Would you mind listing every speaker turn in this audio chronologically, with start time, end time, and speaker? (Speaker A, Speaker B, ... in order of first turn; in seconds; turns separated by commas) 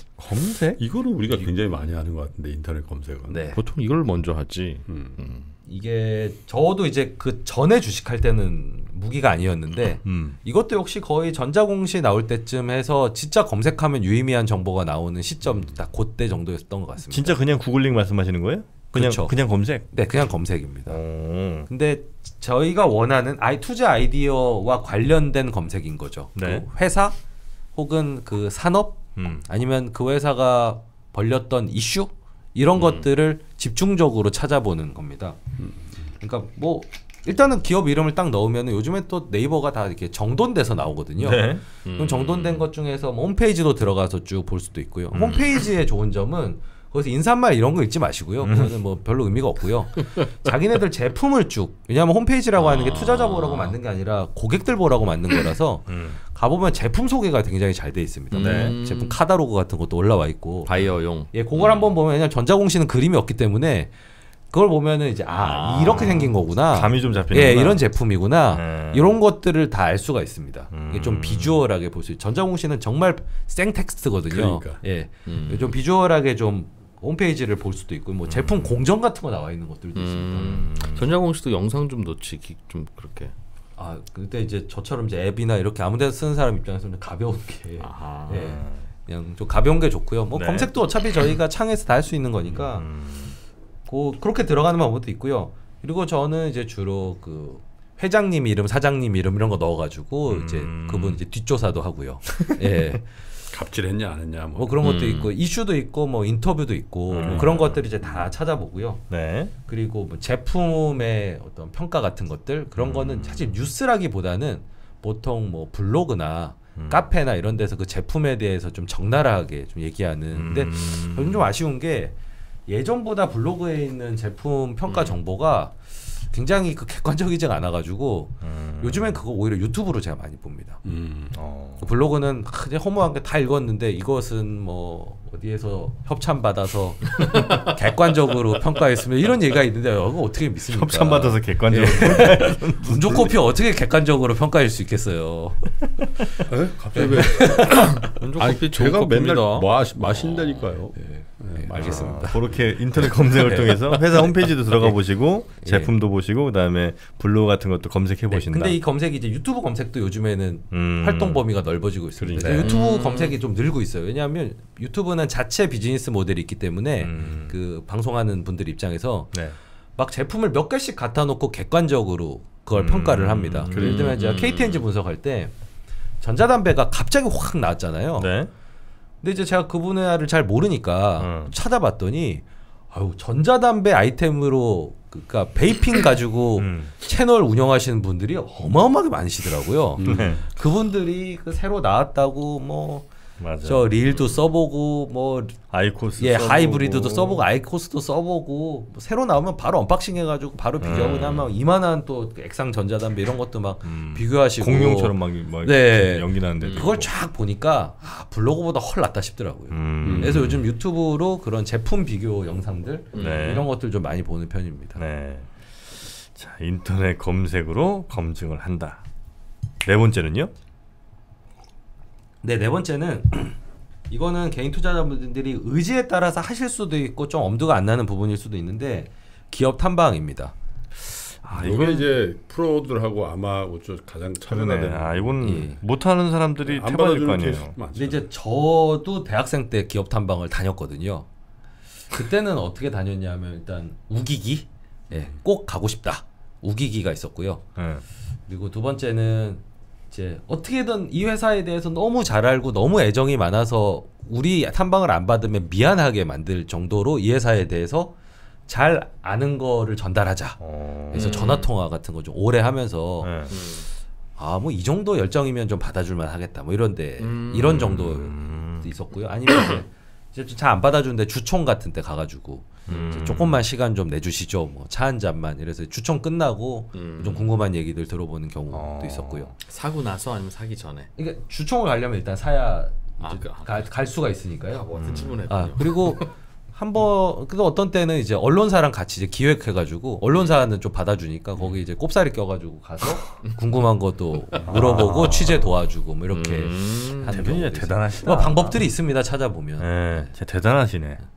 Speaker A: 0.2-0.8, Speaker B: 0.8-3.4, Speaker C: 3.3-3.6, Speaker D: 3.5-5.5, Speaker B: 4.9-5.2, Speaker C: 5.7-17.4, Speaker A: 10.0-10.4, Speaker A: 17.1-19.9, Speaker C: 18.9-21.0, Speaker A: 20.9-21.7, Speaker C: 21.7-27.2, Speaker A: 26.4-26.7, Speaker C: 27.8-35.4, Speaker A: 29.2-29.5, Speaker D: 32.8-33.0, Speaker B: 35.6-35.9, Speaker C: 36.2-60.7, Speaker A: 41.2-41.6, Speaker D: 41.9-42.7, Speaker A: 48.4-48.7, Speaker D: 52.6-53.8, Speaker A: 55.9-56.2, Speaker D: 58.3-59.2, Speaker A: 58.4-58.8, Speaker D: 60.7-61.9, Speaker C: 61.3-63.9, Speaker C: 64.5-80.7, Speaker D: 65.4-66.3, Speaker A: 65.9-67.8, Speaker A: 68.5-69.2, Speaker A: 70.7-71.6, Speaker B: 74.3-74.8, Speaker D: 75.3-75.8, Speaker A: 78.2-78.8, Speaker D: 80.0-83.3, Speaker A: 80.4-81.1, Speaker C: 83.8-92.9, Speaker D: 87.8-88.6, Speaker A: 88.4-88.8, Speaker A: 90.3-90.7, Speaker A: 92.5-93.4, Speaker C: 93.9-103.1, Speaker A: 100.3-101.2, Speaker B: 103.5-104.8, Speaker C: 104.5-109.0, Speaker D: 104.8-105.3, Speaker A: 107.1-107.9, Speaker A: 109.1-109.5, Speaker C: 109.7-122.2, Speaker A: 112.8-113.5, Speaker A: 116.8-117.0, Speaker A: 120.3-121.5, Speaker C: 122.7-130.8, Speaker D: 124.9-125.2, Speaker A: 128.4-129.2, Speaker B: 130.8-131.4, Speaker A: 131.3-131.9, Speaker C: 131.8-145.7, Speaker A: 140.7-143.3, Speaker C: 146.3-148.1, Speaker B: 146.5-152.4, Speaker D: 147.7-150.7, Speaker C: 151.0-152.4, Speaker A: 151.8-158.8, Speaker D: 151.8-152.3, Speaker C: 152.9-155.0, Speaker C: 155.6-155.9, Speaker C: 158.3-169.4, Speaker A: 160.7-161.5, Speaker B: 162.2-162.7, Speaker A: 162.3-162.7, Speaker D: 162.7-163.3, Speaker A: 167.0-167.6, Speaker C: 170.0-175.5, Speaker A: 172.7-174.2, Speaker D: 173.7-174.8, Speaker C: 176.2-178.3, Speaker A: 178.2-178.5, Speaker C: 179.2-193.1, Speaker A: 181.2-181.5, Speaker A: 186.6-186.9, Speaker B: 190.0-190.4, Speaker A: 190.1-190.5, Speaker A: 193.4-193.8, Speaker C: 193.6-195.6, Speaker A: 195.7-197.5, Speaker C: 196.2-215.0, Speaker A: 200.8-201.5, Speaker A: 203.8-207.1, Speaker D: 206.6-207.0, Speaker A: 209.7-210.7, Speaker B: 210.0-210.4, Speaker D: 213.2-213.6, Speaker A: 213.2-213.7, Speaker A: 215.0-219.0, Speaker A: 219.8-220.5, Speaker C: 222.4-223.6, Speaker C: 224.1-230.5, Speaker A: 231.4-232.1, Speaker B: 231.5-235.5, Speaker A: 234.5-237.8, Speaker C: 235.4-235.8, Speaker B: 236.6-238.2, Speaker C: 237.9-241.3, Speaker C: 242.1-247.7, Speaker A: 247.8-248.1, Speaker C: 248.5-258.1, Speaker C: 258.7-260.6, Speaker A: 260.6-261.6, Speaker C: 261.1-263.3, Speaker D: 261.1-261.7, Speaker A: 263.2-263.6, Speaker D: 263.5-263.9, Speaker C: 264.4-279.5, Speaker D: 267.2-267.8, Speaker A: 267.6-268.9, Speaker D: 272.9-273.2, Speaker A: 272.9-273.6, Speaker D: 276.9-277.5, Speaker A: 278.7-279.6, Speaker D: 279.6-281.1, Speaker C: 281.2-300.3, Speaker D: 283.2-283.9, Speaker D: 284.9-286.3, Speaker A: 284.9-285.4, Speaker A: 294.7-295.7, Speaker D: 296.3-297.4, Speaker A: 297.3-298.9, Speaker A: 299.8-301.2